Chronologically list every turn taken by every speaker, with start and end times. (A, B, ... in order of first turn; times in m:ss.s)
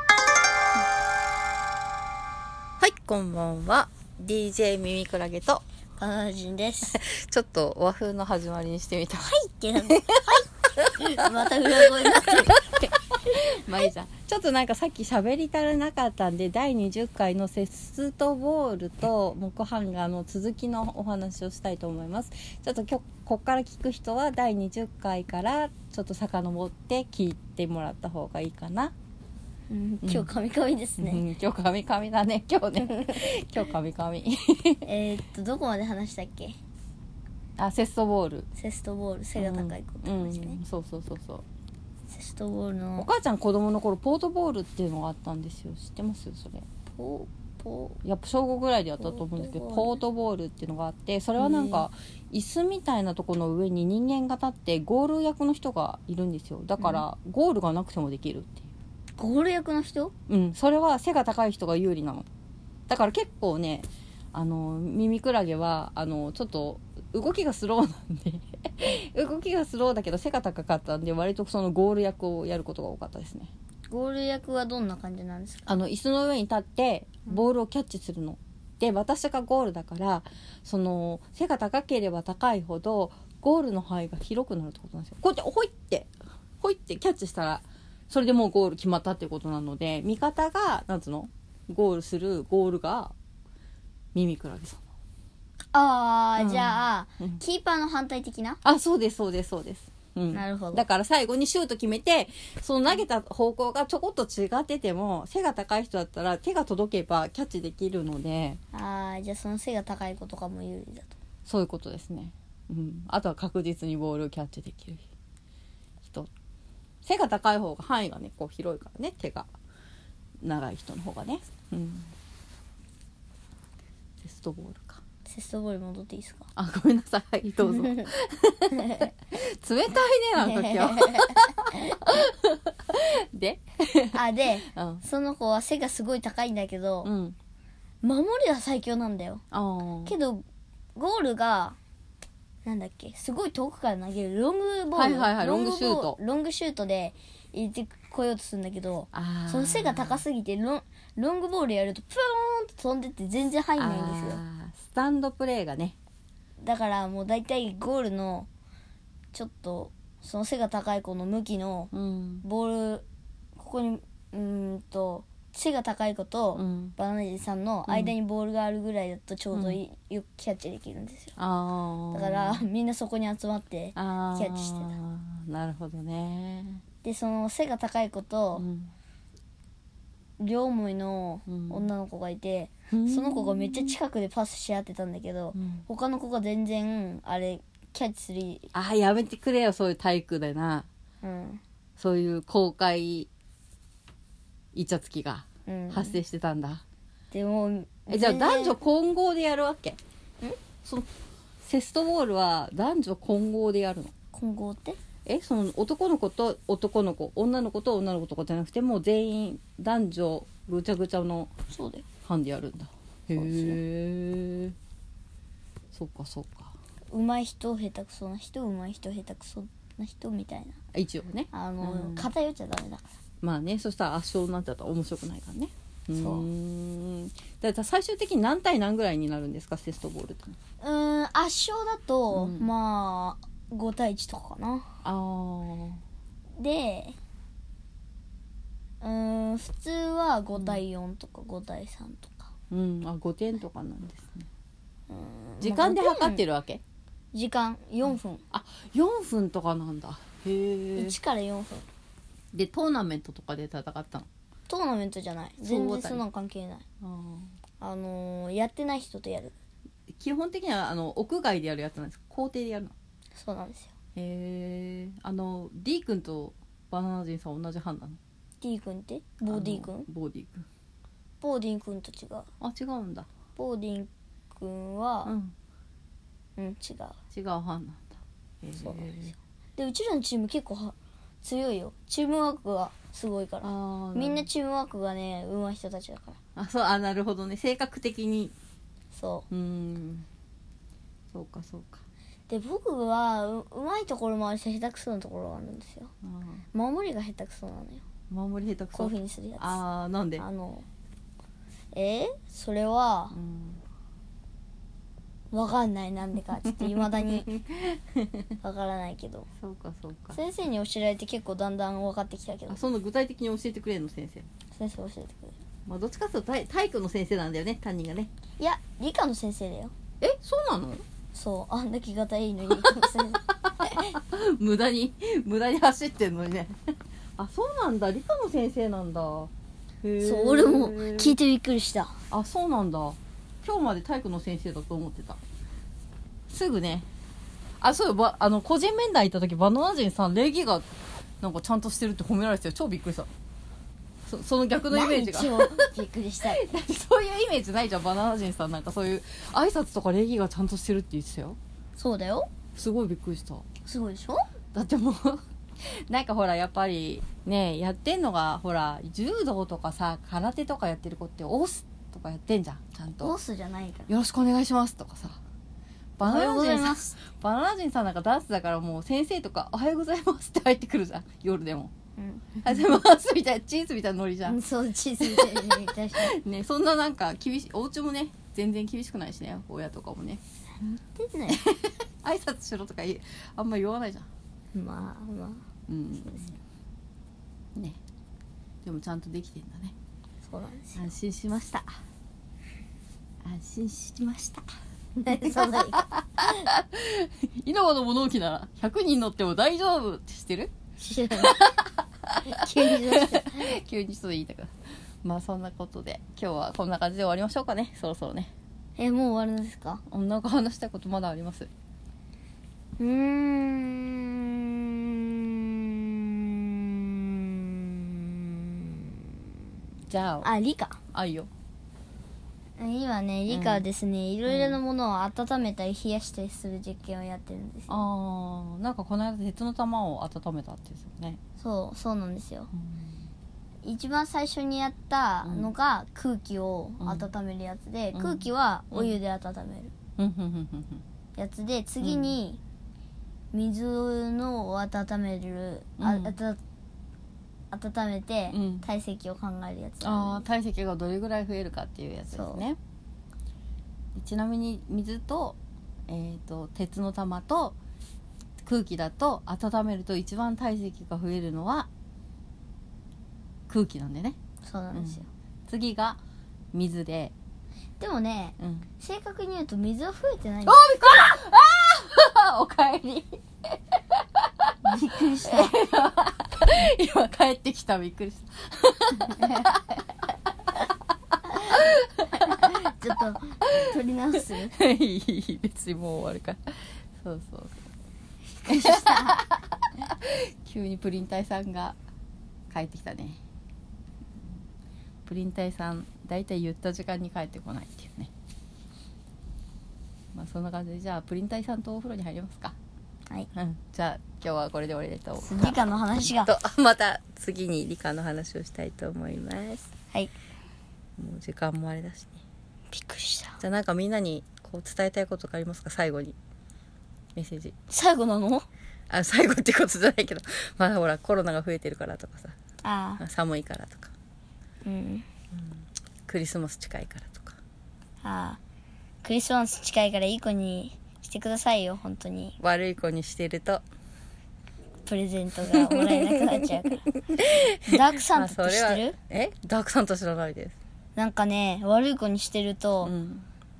0:02.8-0:05.6 A
0:06.0-0:07.0 B
0:06.8-0:28.9 A
0:09.2-0:10.4 B
0:11.0-0:12.8 B
0:29.7-0:31.2 B
0:30.0-0:30.3 A
0:31.0-0:34.8 A
0:34.8-0:36.6 B
0:37.6-0:38.5 A
0:38.6-0:40.6 B
0:39.4-0:41.4 A
0:42.1-0:43.1 B
0:43.0-0:46.6 A
0:46.9-0:48.0 B
0:48.0-0:58.7 A
0:49.0-0:50.0 B
0:51.4-0:51.9 B
0:56.8-0:57.0 B
0:59.2-1:00.1 B
1:00.3-1:02.3 A
1:02.9-1:13.5 A
1:13.9-1:15.8 B
1:15.7-1:33.1 A
1:34.2-1:34.8 A
1:35.7-1:38.6 B
1:36.4-1:37.4 A
1:38.6-1:48.6 A
1:40.3-1:40.9 B
1:48.7-1:51.2 B
1:51.5-1:55.0 A
1:56.0-1:56.3 A
1:57.0-1:59.5 A
2:00.4-2:02.1 A
2:04.2-2:05.0 A
2:05.2-2:06.5 B
2:06.6-2:15.0 A
2:07.7-2:08.1 B
2:08.8-2:09.1 B
2:10.4-2:12.0 B
2:14.1-2:17.1 B
2:17.0-2:17.4 A
2:18.0-2:19.4 B
2:19.5-2:20.1 A
2:20.0-2:20.4 B
2:21.0-2:21.8 B
2:22.6-2:34.4 B
2:25.0-2:26.2 A
2:29.1-2:30.2 A
2:33.8-2:36.0 A
2:36.6-2:38.5 B
2:39.3-2:41.9 B
2:41.9-2:42.4 A
2:42.4-2:43.0 B
2:43.6-2:51.4 B
2:46.5-2:47.0 A
2:47.9-2:48.2 A
2:49.5-2:49.8 A
2:51.4-2:52.7 A
2:52.1-2:55.0 B
2:54.0-2:56.8 A
2:57.0-2:58.7 B
2:58.6-2:58.9 A
3:00.4-3:08.7 B
3:01.5-3:01.8 A
3:02.9-3:04.0 A
3:05.5-3:05.9 A
3:08.7-3:10.9 A
3:11.2-3:11.6 B
3:12.0-3:13.3 A
3:14.7-3:16.8 A
3:15.7-3:16.2 B
3:17.3-3:18.8 B
3:18.1-3:20.0 A
3:21.6-3:24.1 A
3:24.3-3:25.0 B
3:25.3-3:31.5 A
3:31.7-3:32.1 B
3:32.2-3:34.8 A
3:33.3-3:33.8 B
3:35.9-3:36.8 A
3:37.1-3:40.8 B
3:40.9-3:42.3 A
3:41.5-3:43.0 B
3:43.4-3:50.6 A
3:46.1-3:46.5 B
3:50.8-3:54.9 B
3:52.3-3:52.7 A
3:55.0-3:56.0 A
3:56.6-3:57.2 B
3:59.0-4:02.5 B
4:00.6-4:00.8 A
4:02.7-4:04.5 A
4:05.1-4:06.4 B
4:05.6-4:06.8 A
4:07.3-4:08.4 B
4:08.5-4:11.2 A
4:11.0-4:11.9 B
4:12.5-4:14.3 A
4:14.7-4:16.8 B
4:15.6-4:16.2 A
4:17.0-4:17.5 A
4:17.8-4:19.5 B
4:20.1-4:22.9 A
4:23.4-4:23.9 B
4:24.2-4:28.2 A
4:28.6-4:30.1 B
4:29.5-4:30.7 A
4:31.4-4:32.5 B
4:32.6-4:33.3 A
4:33.6-4:35.3 B
4:35.2-4:35.5 A
4:36.6-4:37.2 B
4:37.3-4:39.4 A
4:38.8-4:46.4 B
4:43.6-4:44.5 A
4:46.6-4:48.5 A
4:49.1-4:49.5 B
4:49.5-4:50.3 A
4:51.3-4:52.0 A
4:52.5-4:56.1 B
4:56.2-4:56.6 A
4:56.7-4:58.0 B
4:58.3-5:00.4 A
4:58.9-4:59.8 B
5:00.4-5:00.9 B
5:01.9-5:03.4 B
5:03.3-5:03.8 A
5:05.5-5:07.5 B
5:06.8-5:08.5 A
5:08.6-5:09.5 B
5:09.6-5:10.4 A
5:10.3-5:12.8 B
5:12.7-5:14.5 A
5:14.7-5:15.6 B
5:15.9-5:18.3 A
5:18.6-5:19.9 B
5:20.2-5:21.0 A
5:21.3-5:24.2 B
5:22.8-5:23.1 A
5:23.6-5:26.8 A
5:27.4-5:29.5 A
5:30.0-5:31.4 A
5:30.2-5:32.2 B
5:32.3-5:35.4 A
5:36.5-5:37.1 A
5:37.8-5:40.9 A
5:41.4-5:43.3 A
5:44.3-5:45.9 A
5:44.9-5:46.6 B
5:46.4-5:51.6 A
5:52.0-5:52.5 B
5:52.8-5:53.7 A
5:53.8-5:54.5 B
5:54.7-6:03.3 A
6:03.2-6:04.1 B
6:04.1-6:05.4 A
6:06.2-6:11.9 A
6:06.2-6:07.2 B
6:12.2-6:12.6 B
6:12.6-6:14.6 A
6:14.5-6:16.3 B
6:15.2-6:20.4 A
6:20.8-6:21.6 B
6:21.5-6:24.3 A
6:24.7-6:25.6 B
6:25.9-6:26.6 A
6:28.8-6:30.0 A
6:30.4-6:31.1 B
6:31.0-6:32.0 A
6:33.4-6:34.7 A
6:35.2-6:36.6 B
6:35.4-6:40.7 A
6:41.0-6:41.8 B
6:41.4-6:44.7 A
6:42.4-6:43.7 B
6:45.2-6:48.5 A
6:49.0-6:50.0 B
6:50.1-6:51.7 A
6:53.0-6:59.3 B
7:00.1-7:00.5 A
7:00.4-7:01.0 B
7:01.1-7:01.5 A
7:02.8-7:08.0 B
7:03.5-7:03.8 A
7:04.5-7:04.8 A
7:07.9-7:11.4 A
7:11.6-7:12.7 B
7:12.7-7:13.3 A
7:13.8-7:19.9 B
7:15.4-7:15.7 A
7:17.0-7:17.3 A
7:18.1-7:19.2 A
7:20.2-7:21.0 A
7:21.4-7:22.6 B
7:22.0-7:22.4 A
7:23.5-7:26.6 B
7:26.0-7:26.4 A
7:27.7-7:30.4 B
7:28.5-7:28.9 A
7:30.0-7:32.8 A
7:32.3-7:32.6 B
7:34.2-7:37.8 A
7:38.6-7:41.9 A
7:43.7-7:44.4 A
7:44.6-7:45.3 B
7:44.9-7:46.2 A
7:46.7-7:47.3 A
7:48.0-7:50.8 B
7:48.6-7:48.9 A
7:50.6-7:54.7 A
7:54.8-7:55.9 B
7:55.4-8:00.0 A
8:01.5-8:01.8 B
8:01.6-8:02.8 A
8:02.4-8:04.8 B
8:04.4-8:07.8 A
8:08.6-8:09.4 B
8:08.7-8:12.0 A
8:12.7-8:13.4 A
8:15.3-8:18.3 A
8:20.3-8:22.8 A
8:23.5-8:29.9 A
8:25.4-8:26.5 B
8:31.2-8:32.4 A
8:32.9-8:33.6 B
8:33.6-8:36.4 A
8:37.4-8:37.7 A
8:37.9-8:38.7 B
8:39.1-8:42.5 A
8:42.8-8:43.2 B
8:43.2-8:44.1 A
8:44.8-8:45.3 B
8:45.5-8:47.6 A
8:48.2-8:48.6 B
8:49.2-8:52.6 B
8:52.6-8:53.8 A
8:55.0-8:57.1 B
8:55.7-9:00.8 A
8:57.8-8:59.2 B
9:01.2-9:03.1 B
9:03.0-9:03.5 A